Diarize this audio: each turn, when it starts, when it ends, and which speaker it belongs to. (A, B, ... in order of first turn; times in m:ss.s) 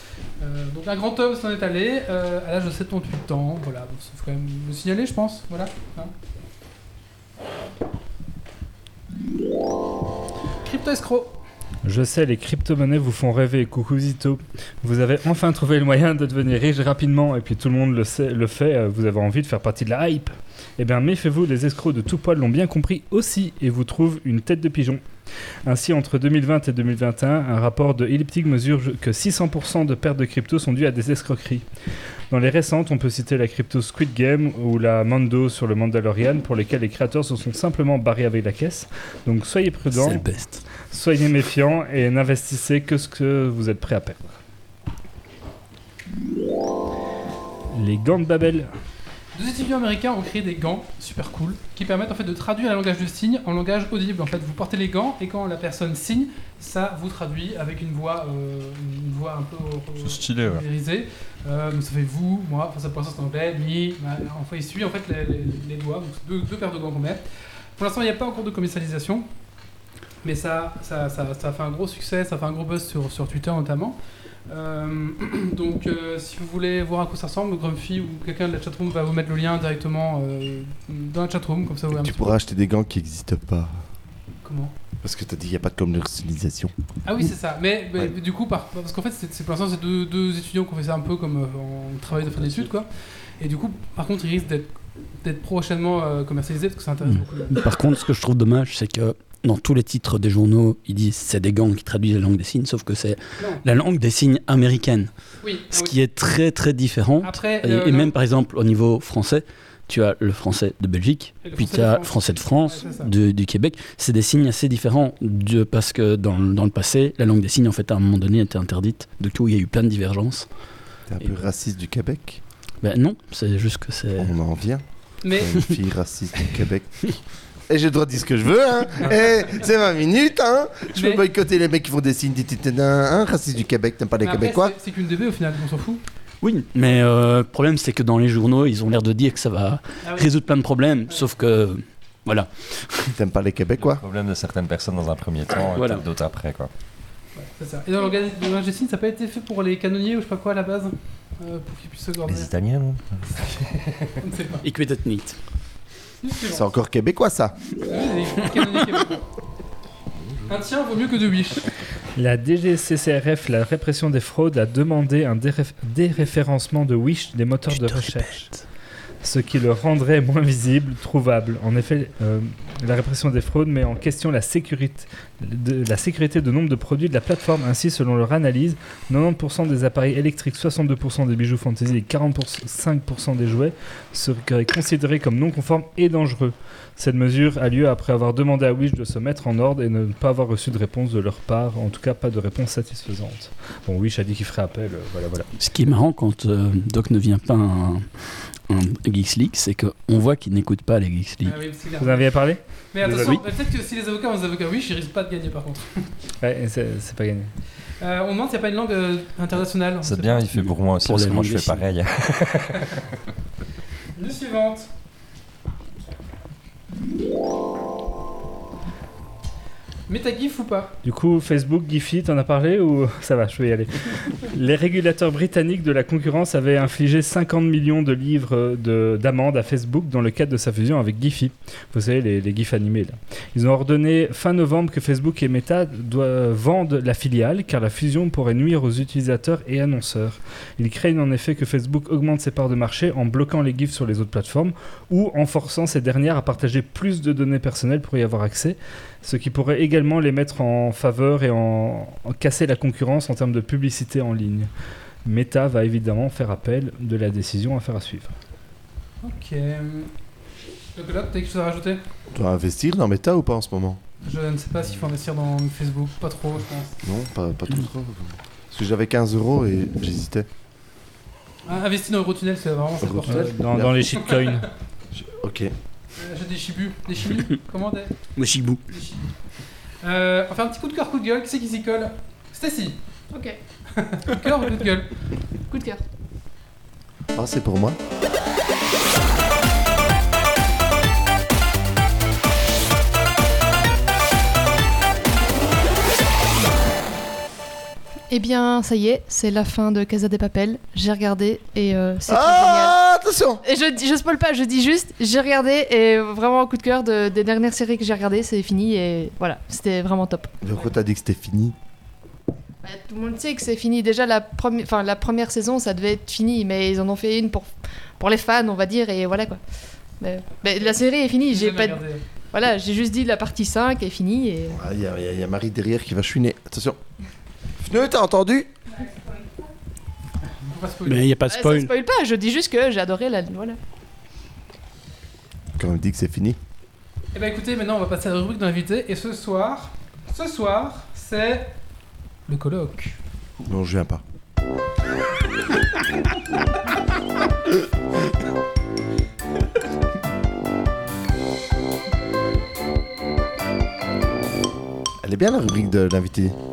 0:00.4-0:06.1 A
0:10.6-0:11.4 A
0:11.8-0:25.0 B
0:25.6-0:31.6 B
0:32.3-0:40.3 B
0:39.9-0:40.6 C
0:40.9-0:44.2 B
0:47.7-0:48.7 B
0:49.3-1:07.2 A
1:00.0-1:00.6 D
1:07.8-1:09.2 A
1:10.2-1:14.0 A
1:14.5-1:22.4 A
1:21.9-1:23.8 E
1:24.4-1:24.7 A
1:25.0-1:26.7 E
1:27.0-1:34.7 A
1:35.2-1:37.6 A
1:37.1-1:45.1 C
1:45.4-1:45.9 A
1:45.7-2:00.4 C
1:47.2-1:48.1 A
1:51.4-1:53.1 A
2:01.1-2:02.4 E
2:02.8-2:04.3 C
2:04.2-2:07.1 E
2:05.2-2:05.5 A
2:07.7-2:14.7 E
2:10.9-2:11.2 A
2:14.2-2:16.0 A
2:16.4-2:23.1 C
2:23.2-2:24.0 E
2:23.8-2:26.7 D
2:25.7-2:26.0 C
2:27.4-2:32.5 A
2:32.3-2:33.8 D
2:34.2-2:34.6 A
2:34.6-2:35.4 C
2:36.2-2:36.7 A
2:36.5-2:37.6 E
2:37.8-2:39.2 A
2:40.5-2:41.6 A
2:42.2-2:48.5 B
2:47.7-2:48.6 C
2:49.2-3:15.5 B
3:15.6-3:18.1 C
3:18.7-3:21.6 C
3:21.4-3:22.3 A
3:22.0-3:23.4 B
3:22.9-3:26.0 A
3:26.4-3:27.5 B
3:28.0-3:30.6 A
3:30.0-3:33.0 D
3:31.0-3:31.9 C
3:34.2-3:34.9 A
3:40.1-3:40.9 A
3:41.0-4:14.7 B
4:15.2-4:18.3 B
4:19.2-4:20.1 A
4:21.0-4:22.0 A
4:22.3-4:24.0 E
4:24.2-4:27.0 A
4:27.0-4:30.5 E
4:31.6-4:33.5 A
4:33.0-4:34.0 E
4:33.3-4:34.7 B
4:34.2-4:34.5 A
4:35.1-4:35.7 E
4:36.2-4:38.1 A
4:38.4-4:38.8 C
4:38.9-4:39.3 A
4:40.0-4:43.0 A
4:43.9-4:45.1 A
4:45.7-4:46.0 F
4:47.3-4:48.0 E
4:58.3-5:03.0 F
5:02.3-5:03.6 E
5:03.6-5:10.5 F
5:10.6-5:11.7 E
5:12.8-5:19.6 F
5:20.2-5:24.8 F
5:21.5-5:22.2 A
5:24.7-5:27.0 E
5:27.8-5:28.7 E
5:30.5-5:31.2 A
5:31.0-5:31.9 C
5:31.5-5:33.8 F
5:35.8-5:36.6 E
5:37.3-5:41.7 A
5:42.5-5:43.2 A
5:43.6-5:44.2 E
5:55.2-5:56.5 E